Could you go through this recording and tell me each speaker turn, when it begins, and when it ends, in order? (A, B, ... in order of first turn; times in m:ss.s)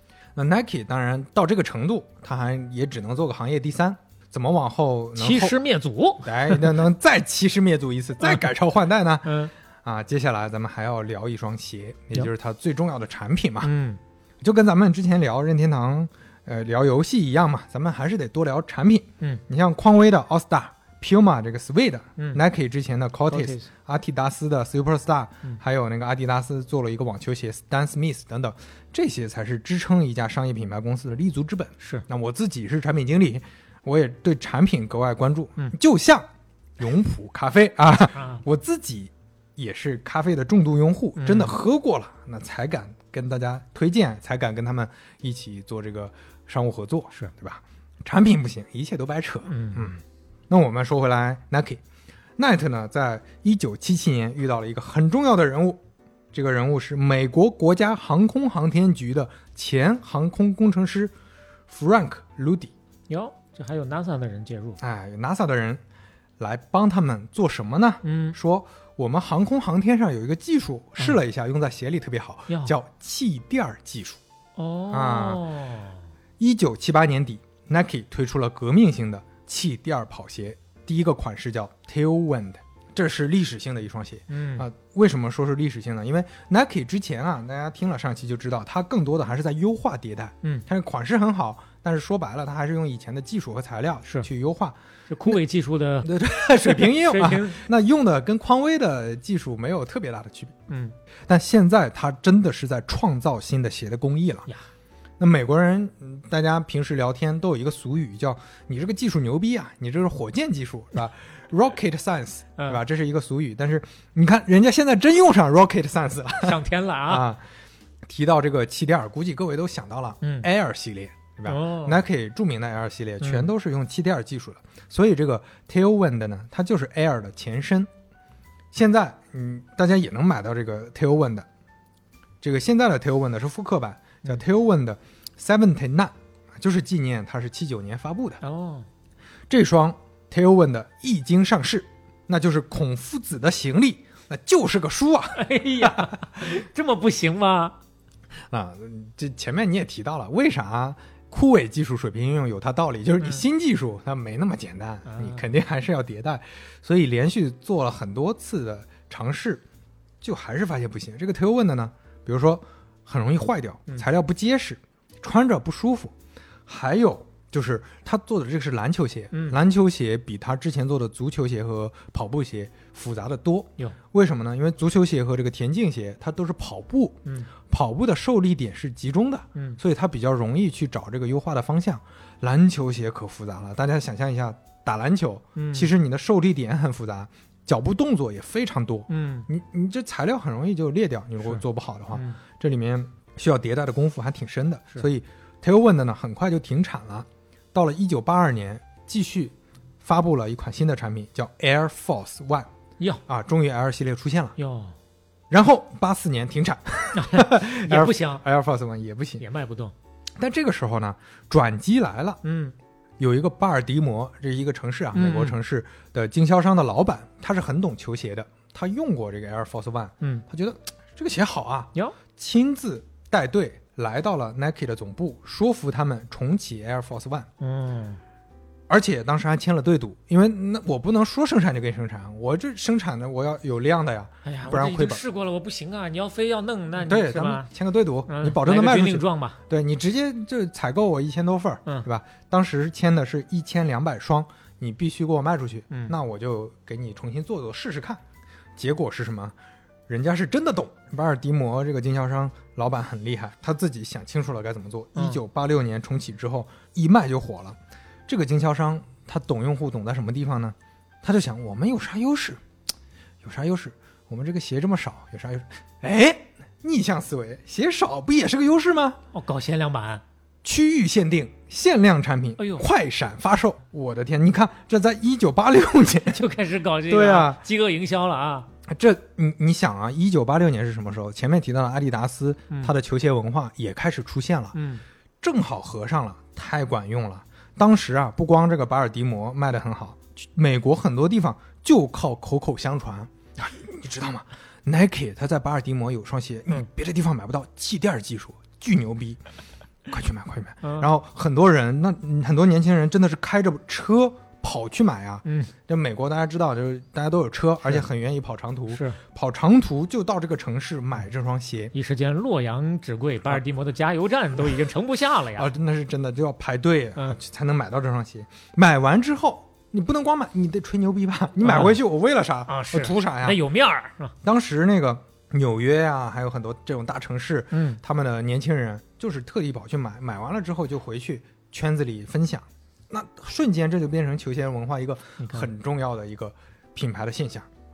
0:00.4-0:05.6 A
0:05.2-0:06.8 B
0:06.2-0:13.7 A
0:08.2-0:08.5 B
0:09.2-0:09.5 B
0:13.6-0:14.0 B
0:14.4-0:36.3 A
0:23.3-0:23.7 B
0:36.8-0:50.0 A
0:38.1-0:38.4 B
0:41.2-0:41.6 B
0:49.5-0:50.0 B
0:50.5-0:51.8 A
0:52.4-1:01.1 A
1:01.7-1:02.7 A
1:03.1-1:04.8 B
1:04.8-1:05.8 A
1:06.4-1:14.2 A
1:08.0-1:08.4 B
1:12.5-1:12.7 B
1:14.6-1:16.0 B
1:14.9-1:15.5 A
1:16.4-1:35.4 A
1:24.3-1:24.7 B
1:35.1-1:37.7 B
1:36.0-1:40.6 A
1:40.7-1:40.9 B
1:41.3-1:44.5 A
1:45.2-1:57.4 A
1:56.4-1:57.3 B
1:58.0-2:07.9 A
2:00.2-2:00.5 B
2:01.5-2:02.0 B
2:03.2-2:03.5 B
2:08.7-2:11.5 A
2:12.4-2:18.4 A
2:18.4-2:18.9 B
2:19.5-2:26.2 A
2:25.4-2:27.8 B
2:28.5-2:39.6 A
2:35.1-2:35.4 B
2:40.2-2:46.1 A
2:46.7-3:22.7 A
2:49.3-2:49.6 B
2:59.6-2:59.8 B
3:05.6-3:05.9 B
3:09.1-3:09.5 B
3:11.4-3:12.4 B
3:23.3-3:24.6 A
3:24.6-3:25.0 B
3:25.5-3:29.4 A
3:27.2-3:28.4 B
3:29.4-3:29.9 B
3:30.4-3:32.4 A
3:32.4-3:32.8 B
3:33.2-3:47.5 A
3:35.1-3:35.6 B
3:47.6-3:48.2 B
3:48.9-3:55.2 A
3:54.4-3:57.7 B
3:57.0-4:08.2 A
3:58.3-3:59.6 B
4:05.9-4:06.2 B
4:08.8-4:09.6 A
4:10.1-4:22.6 A
4:15.2-4:15.4 B
4:23.4-4:29.2 A
4:29.3-4:30.2 B
4:30.6-4:36.5 A
4:32.6-4:32.9 B
4:36.3-4:38.7 B
4:37.1-4:37.6 A
4:38.9-4:44.8 A
4:44.7-4:45.0 B
4:45.4-4:59.4 A
5:00.1-5:11.9 A
5:00.8-5:01.1 B
5:05.4-5:05.7 B
5:08.9-5:09.2 B
5:11.9-5:15.7 B
5:15.6-5:23.6 A
5:21.6-5:22.0 B
5:22.7-5:24.3 B
5:24.4-5:37.7 A
5:27.7-5:28.0 B
5:35.4-5:35.7 B